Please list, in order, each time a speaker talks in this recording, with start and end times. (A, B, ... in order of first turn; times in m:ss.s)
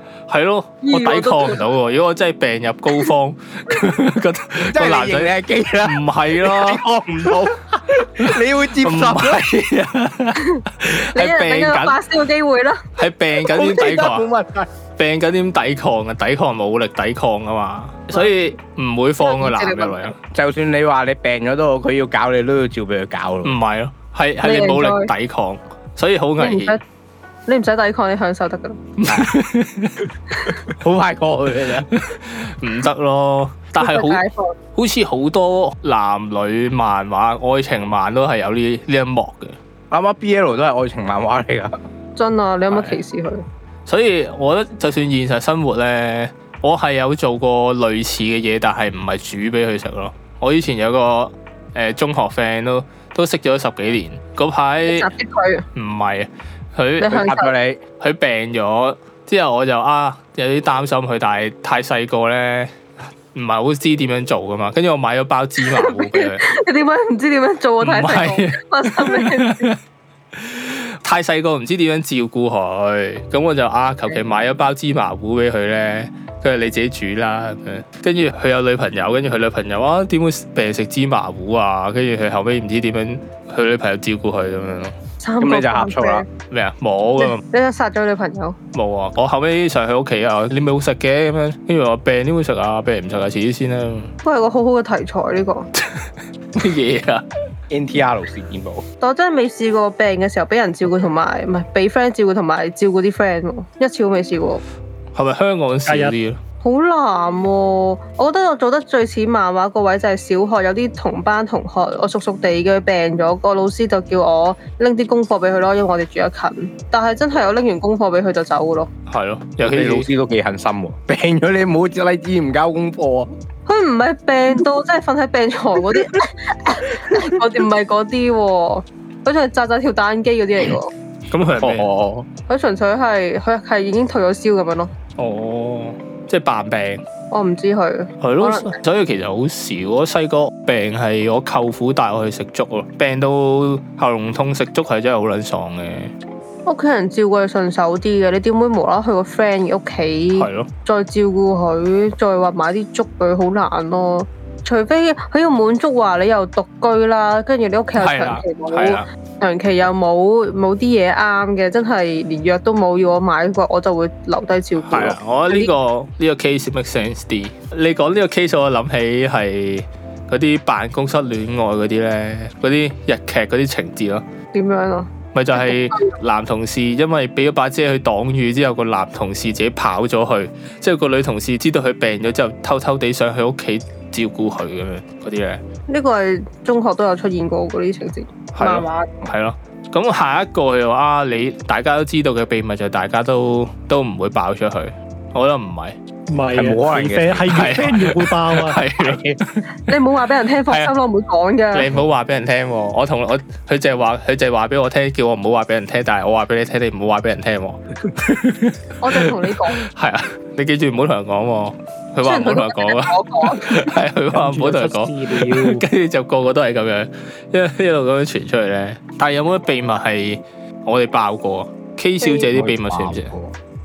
0:00.3-0:06.8 A
0:00.8-0:01.6 B
0:04.6-0:09.5 C
0:08.2-0:12.0 A
0:10.4-0:12.8 B
0:13.0-0:14.2 A
0:13.4-0:14.7 C
0:15.0-0:20.1 A
0:18.1-0:18.3 B
0:19.2-0:20.1 B
0:20.3-0:23.6 C
0:23.4-0:26.8 A
0:24.4-0:25.1 B
0:26.4-0:26.8 B
0:27.5-0:28.8 B
0:29.0-0:30.1 A
0:29.1-0:29.3 C
0:30.7-0:31.9 C
0:31.9-0:34.2 A
0:33.8-0:34.6 B
0:34.7-0:39.6 A
0:39.9-0:41.7 C
0:42.2-0:43.4 B
0:42.7-0:43.0 A
0:43.9-0:55.1 A
0:54.9-0:55.7 B
0:55.7-0:57.2 A
0:57.0-0:57.5 B
0:57.0-0:57.8 C
0:58.0-1:02.7 A
1:03.3-1:06.4 A
1:05.6-1:09.7 B
1:07.8-1:09.8 A
1:10.3-1:24.9 A
1:25.2-1:26.3 B
1:25.4-1:26.2 C
1:26.5-1:27.4 A
1:27.2-1:28.6 B
1:28.7-1:34.1 A
1:34.2-1:35.7 B
1:36.5-1:37.2 A
1:37.7-1:38.8 C
1:39.0-1:44.6 B
1:45.1-1:46.4 A
1:45.9-1:46.1 D
1:46.6-1:58.9 B
1:59.1-2:00.1 A
1:59.6-2:03.3 C
2:03.7-2:10.9 B
2:11.3-2:11.9 A
2:11.6-2:12.3 C
2:12.5-2:14.9 B
2:15.2-2:17.0 A
2:17.3-2:18.8 B
2:18.2-2:26.1 A
2:26.6-2:45.7 B
2:30.3-2:30.7 A
2:38.0-2:39.0 A
2:44.8-2:54.2 A
2:54.5-2:56.1 B
2:55.3-3:05.6 A
3:05.9-3:09.1 B
3:08.5-3:16.0 A
3:16.3-3:18.8 D
3:16.5-3:18.1 C
3:17.5-3:19.6 A
3:19.0-3:19.4 C
3:19.8-3:21.9 B
3:21.7-3:43.3 A
3:29.0-3:29.8 B
3:32.2-3:33.9 B
3:34.3-3:35.8 D
3:42.2-3:42.5 B
3:42.5-3:43.5 C